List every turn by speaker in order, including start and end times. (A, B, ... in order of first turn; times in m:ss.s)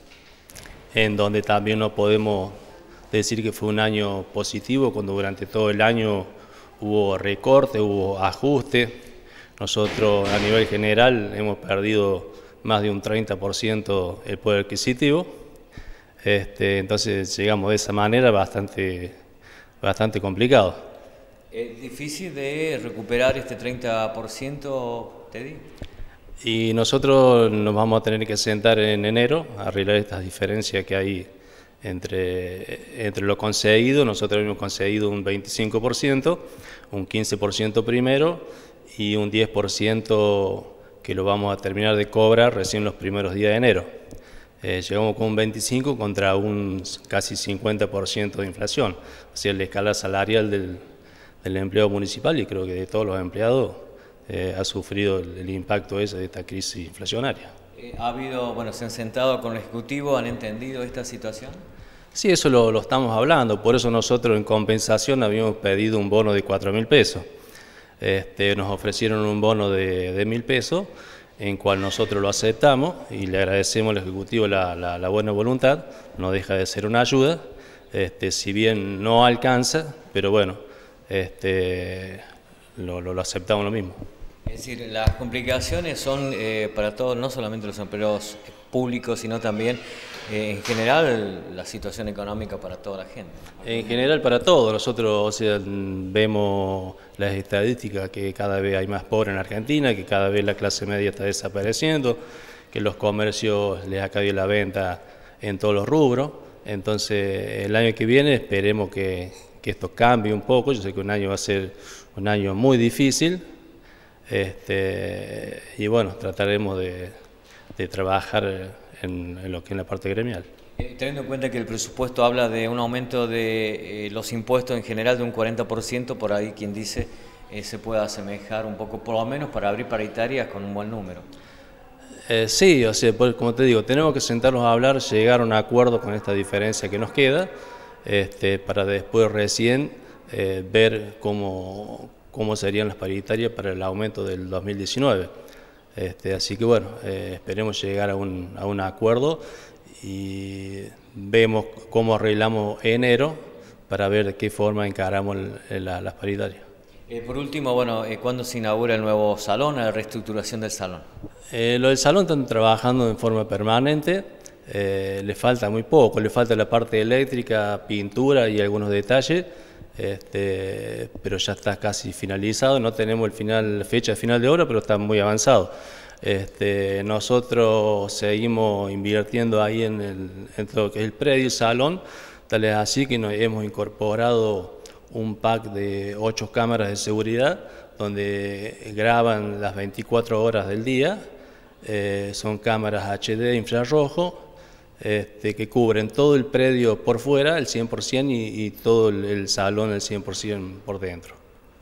0:00.9-0:02.5 A
0:03.1-0:06.3 A
0:06.8-0:08.9 A
0:09.6-0:15.3 A
0:16.2-0:19.1 A
0:19.8-0:20.8 A
0:21.5-0:25.7 B
0:26.4-0:31.2 A
0:31.8-0:43.9 A
0:44.6-0:50.8 A
0:51.4-0:57.5 A
0:57.8-1:01.6 B
1:02.1-1:07.2 A
1:08.0-1:17.4 A
1:17.9-1:20.6 A
1:21.1-1:22.2 A
1:22.8-1:24.0 A
1:24.4-1:34.0 B
1:33.6-1:42.2 A
1:42.7-1:53.4 A
1:54.3-1:57.1 A
1:57.8-2:00.5 A
2:00.8-2:11.2 B
2:12.3-2:17.5 A
2:18.0-2:25.3 A
2:25.9-2:29.4 A
2:30.0-2:36.6 A
2:37.1-2:41.0 B
2:41.5-2:55.7 A
2:56.2-3:11.2 A
3:11.8-3:14.5 A
3:15.0-3:21.4 A